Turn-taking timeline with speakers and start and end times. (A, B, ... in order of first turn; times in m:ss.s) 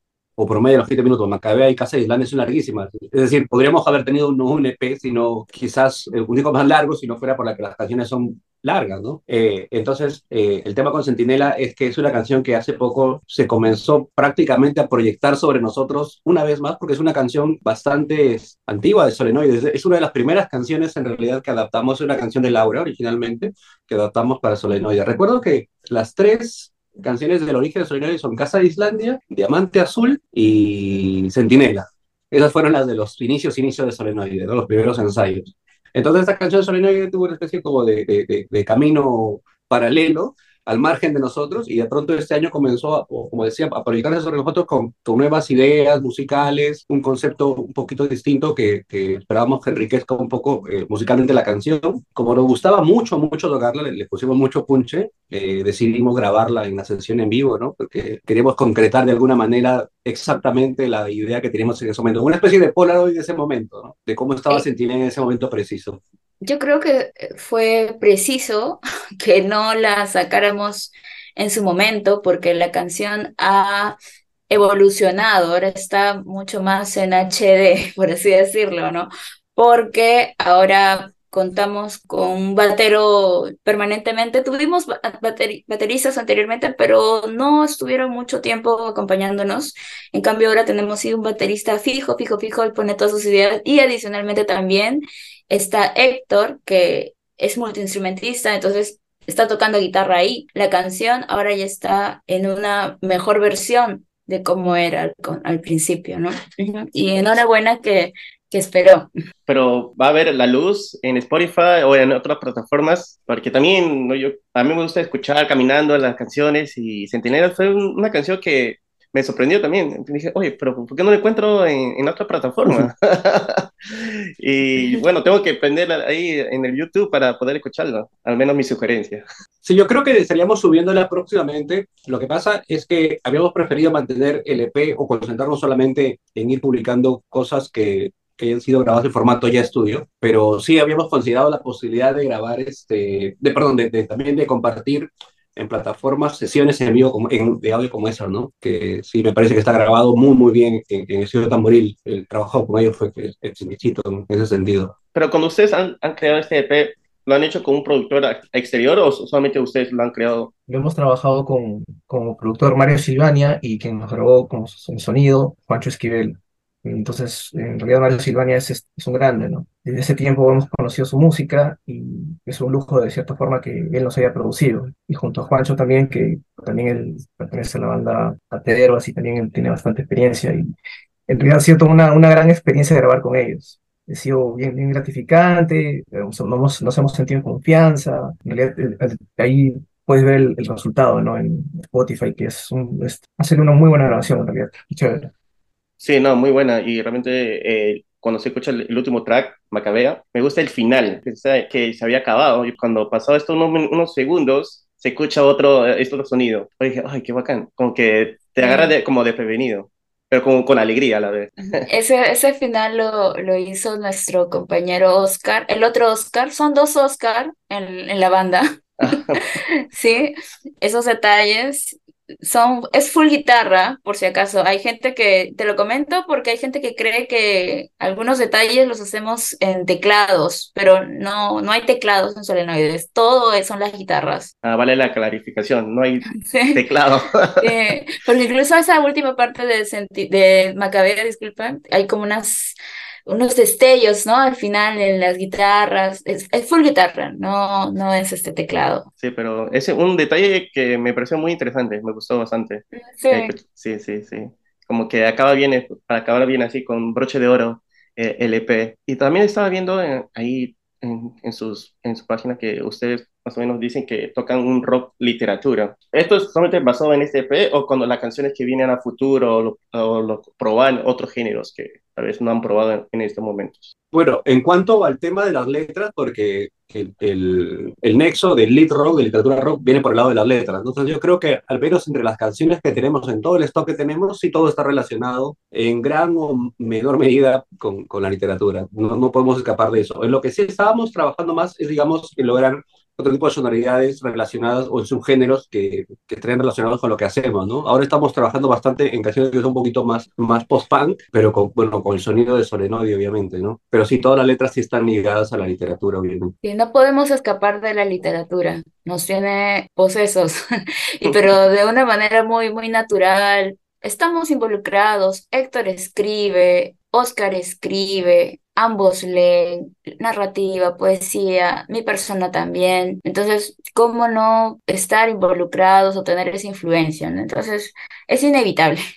0:00.4-1:06.0 A
1:06.4-1:14.0 B
1:14.5-1:49.1 B
1:49.5-2:09.2 C
2:09.6-2:34.9 A
2:35.1-2:40.5 C
2:40.7-3:00.7 D
3:01.3-3:15.3 D
3:16.0-3:31.8 C
3:28.6-3:29.0 B
3:31.8-3:38.6 B
3:39.0-3:39.4 C
3:39.9-3:54.5 B
3:54.6-3:57.7 C
3:56.3-3:56.8 B
3:57.6-4:09.1 B
4:09.2-4:33.9 C
4:12.9-4:13.5 B
4:34.1-5:06.5 A
5:06.6-5:10.6 B
5:11.2-5:29.0 B